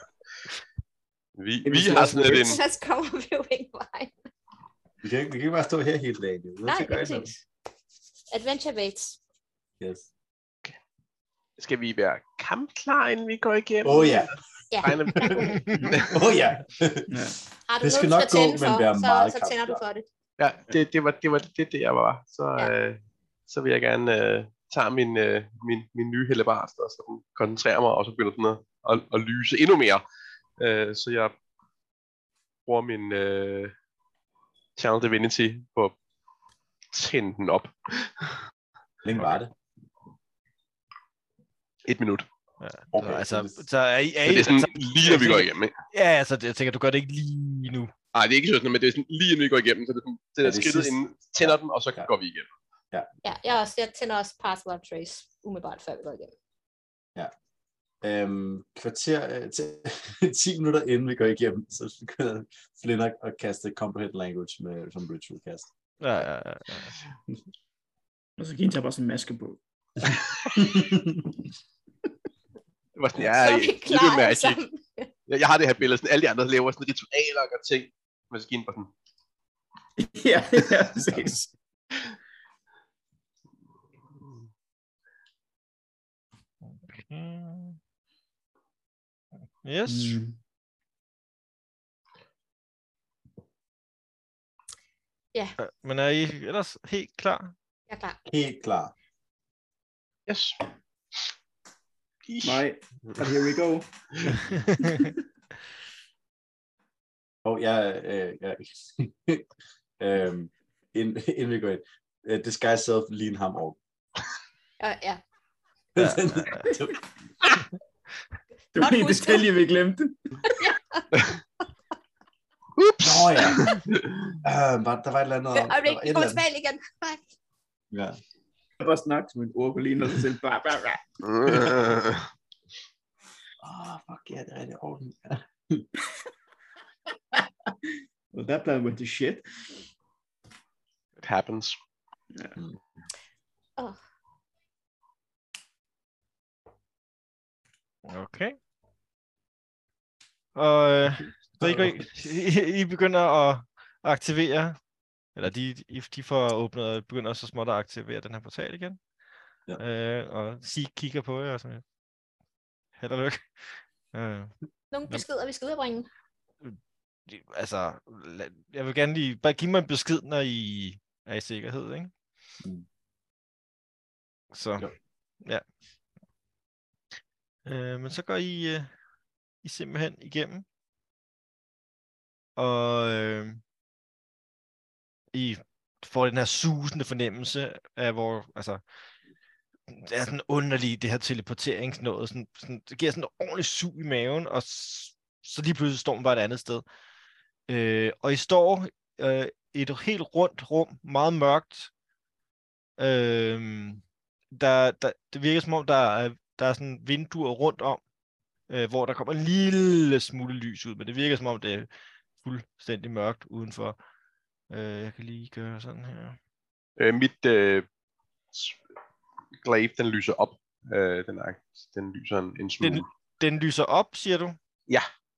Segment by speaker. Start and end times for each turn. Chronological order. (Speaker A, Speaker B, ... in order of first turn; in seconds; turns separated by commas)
Speaker A: 1.4-2.6, Speaker B: 1.6-2.6, Speaker C: 2.2-4.1, Speaker D: 5.0-7.3, Speaker C: 6.6-7.4, Speaker C: 8.3-9.2, Speaker D: 9.8-10.1, Speaker A: 11.6-16.1, Speaker D: 13.8-14.3, Speaker C: 14.7-15.7, Speaker D: 14.9-15.4, Speaker E: 15.6-15.9, Speaker B: 15.7-16.1, Speaker D: 16.0-17.2, Speaker B: 17.1-17.4, Speaker C: 17.7-20.1, Speaker D: 17.8-19.8, Speaker A: 20.4-30.0, Speaker A: 30.6-31.3, Speaker A: 32.6-33.7, Speaker A: 34.8-35.9, Speaker A: 36.9-38.3, Speaker D: 39.0-39.5, Speaker A: 41.9-42.3, Speaker E: 42.6-47.9, Speaker D: 42.9-43.6, Speaker A: 44.2-45.7, Speaker A: 48.1-52.5, Speaker D: 50.4-52.1, Speaker C: 53.2-56.3, Speaker D: 58.0-65.7, Speaker E: 66.0-66.9, Speaker B: 68.4-70.9, Speaker D: 70.6-71.2, Speaker A: 73.0-74.6, Speaker C: 73.3-75.1, Speaker A: 75.3-78.9, Speaker B: 80.0-81.5, Speaker E: 86.6-87.8, Speaker E: 89.6-90.2, Speaker B: 89.9-90.4, Speaker E: 95.6-97.5, Speaker C: 97.9-98.2, Speaker D: 98.2-98.9, Speaker A: 100.3-100.6, Speaker A: 102.2-102.6, Speaker B: 102.4-105.2, Speaker E: 104.5-104.9, Speaker D: 107.4-109.5, Speaker D: 110.0-113.8, Speaker C: 114.8-115.2, Speaker D: 115.9-117.0, Speaker B: 118.7-120.4, Speaker C: 118.8-119.5, Speaker C: 120.5-121.2, Speaker A: 122.8-124.2, Speaker D: 123.0-123.8, Speaker D: 124.4-126.4, Speaker C: 125.5-127.2, Speaker D: 127.9-128.2, Speaker B: 128.8-131.6, Speaker A: 131.2-132.3, Speaker D: 133.6-135.9, Speaker B: 138.3-139.4, Speaker A: 141.2-141.8, Speaker E: 148.0-148.6, Speaker E: 150.5-154.8, Speaker D: 151.6-152.0, Speaker E: 155.3-159.0, Speaker E: 159.8-161.8, Speaker E: 162.9-164.5, Speaker C: 164.9-166.1, Speaker E: 167.3-172.1, Speaker E: 174.5-174.9, Speaker E: 177.7-178.9, Speaker E: 179.6-180.6, Speaker E: 182.6-183.6, Speaker E: 185.3-188.8, Speaker E: 189.9-196.8, Speaker E: 197.7-201.9, Speaker E: 203.0-208.0, Speaker E: 208.7-211.9, Speaker E: 212.4-214.0, Speaker E: 214.7-216.4, Speaker A: 217.0-217.8, Speaker A: 218.5-218.8, Speaker A: 219.6-223.1, Speaker E: 222.8-224.6